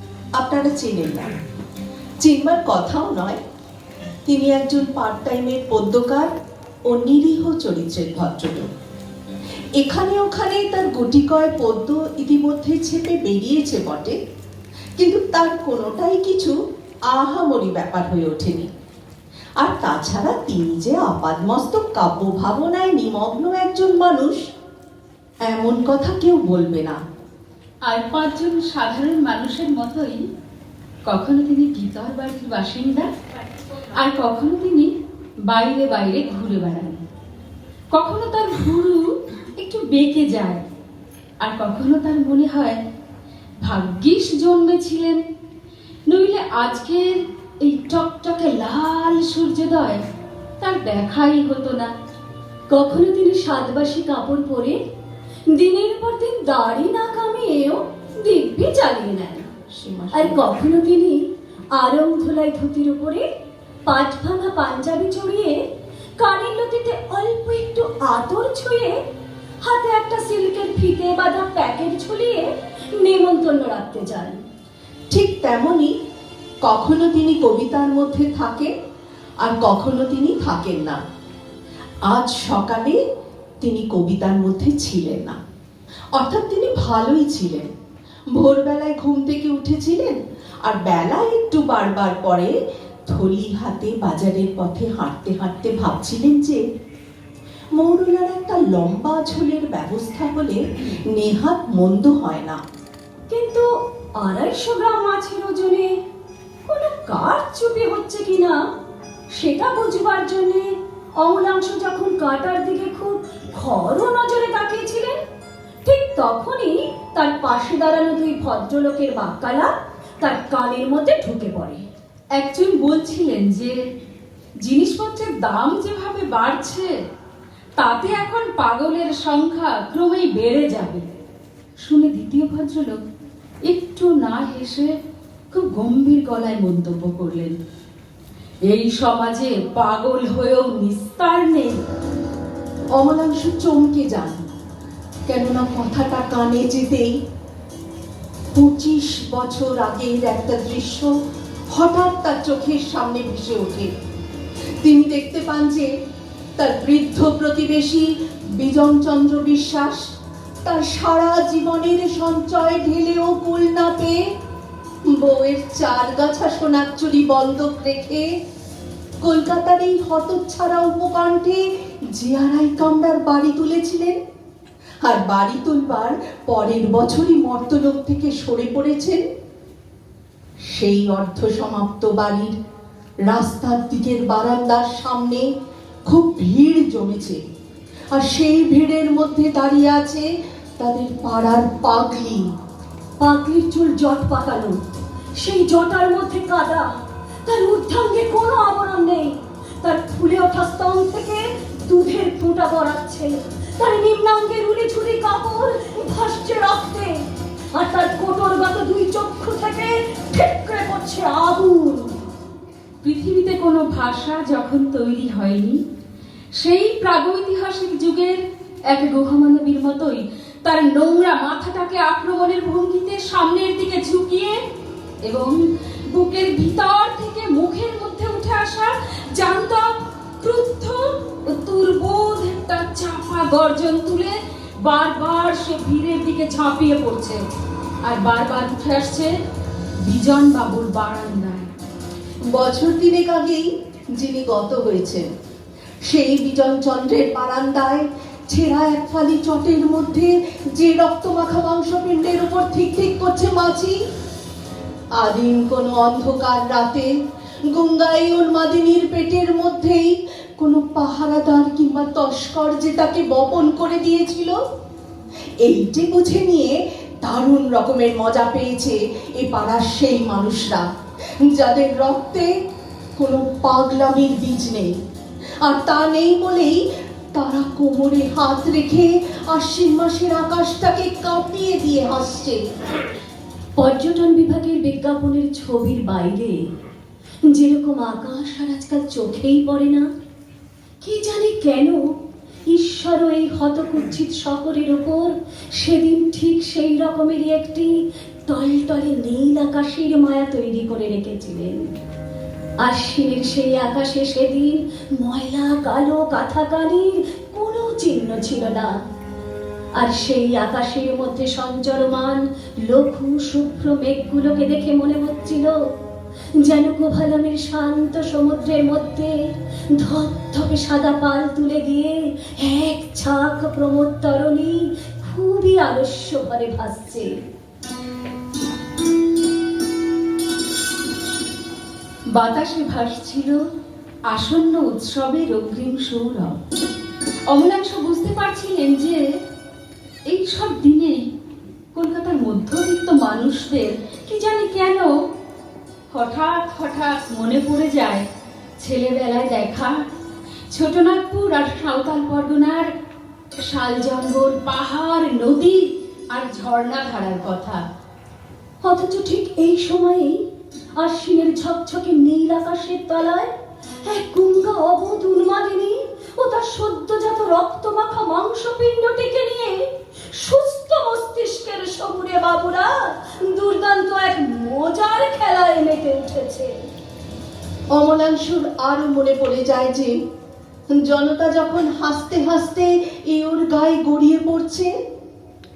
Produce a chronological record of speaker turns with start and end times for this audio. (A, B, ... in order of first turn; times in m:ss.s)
0:00.4-0:01.3 A
0:02.2-0:03.4 A
0:04.2-0:06.3 A
0:06.9-0:08.6 A
0:09.8-0:14.2 A
0:15.0-0:16.5 A
0:17.1-0:18.7 A
0:19.6-0:24.4 A
0:25.4-0:27.0 A
0:27.9-0:30.2 B
0:31.1-0:33.1 B
0:34.0-0:34.9 B
0:35.5-0:37.0 B
0:37.9-0:40.6 B
0:41.4-0:42.8 B
0:43.6-0:45.2 B
0:46.1-0:50.0 B
0:50.6-0:51.9 B
0:52.7-0:54.8 C
0:55.5-0:59.5 C
0:59.7-1:00.4 A
1:00.1-1:01.2 C
1:01.8-1:03.2 C
1:03.9-1:05.6 C
1:06.2-1:09.0 C
1:09.6-1:14.4 C
1:15.1-1:15.9 A
1:16.6-1:18.7 A
1:19.4-1:21.0 A
1:22.0-1:23.0 A
1:23.6-1:25.4 A
1:26.1-1:27.7 A
1:28.3-1:32.5 A
1:33.1-1:36.6 A
1:37.8-1:40.6 A
1:41.1-1:42.6 A
1:43.3-1:43.6 C
1:44.2-1:45.9 C
1:46.7-1:48.6 C
1:49.4-1:55.1 C
1:55.8-2:01.8 C
2:02.4-2:03.8 B
2:04.6-2:06.9 B
2:07.8-2:11.0 B
2:11.8-2:13.0 B
2:13.7-2:14.9 B
2:15.5-2:17.5 B
2:18.7-2:21.8 B
2:22.9-2:24.4 A
2:25.3-2:27.1 A
2:28.5-2:31.1 A
2:31.7-2:33.9 A
2:34.8-2:35.9 A
2:36.6-2:40.1 A
2:40.6-2:44.2 A
2:45.1-2:48.2 A
2:49.2-2:51.6 A
2:52.1-2:54.2 A
2:55.0-2:59.2 A
3:00.7-3:02.5 A
3:03.2-3:05.4 A
3:06.1-3:07.4 A
3:08.1-3:10.2 A
3:10.8-3:12.4 A
3:13.2-3:14.7 C
3:15.4-3:16.9 C
3:17.4-3:27.2 C
3:27.7-3:32.1 C
3:33.0-3:35.8 B
3:36.6-3:38.4 B
3:38.9-3:44.6 B
3:45.2-3:45.6 B
3:46.1-3:57.4 B
3:58.0-3:59.3 B
4:00.0-4:01.7 B
4:02.5-4:03.6 A
4:04.2-4:05.3 A
4:06.0-4:13.9 A
4:15.2-4:17.1 A
4:17.7-4:24.6 A
4:25.6-4:30.8 A
4:31.4-4:32.5 A
4:33.2-4:34.9 A
4:35.6-4:36.8 A
4:37.3-4:42.6 A
4:43.8-4:46.6 C
4:47.5-4:50.1 C
4:51.0-4:52.0 C
4:52.7-4:57.9 C
4:58.5-5:01.8 C
5:02.8-5:09.0 C
5:10.0-5:15.7 C
5:16.6-5:19.4 C
5:19.9-5:27.3 C
5:32.3-5:33.6 B
5:34.3-5:36.6 B
5:37.5-5:39.2 B
5:40.3-5:41.2 B
5:41.9-5:45.1 B
5:46.1-5:48.2 B
5:48.8-5:50.0 B
5:50.7-5:52.9 B
5:53.6-5:57.8 B
5:58.8-6:00.4 C
6:01.0-6:03.5 C
6:04.0-6:09.8 C
6:10.4-6:16.7 C
6:17.9-6:20.1 A
6:20.9-6:24.9 A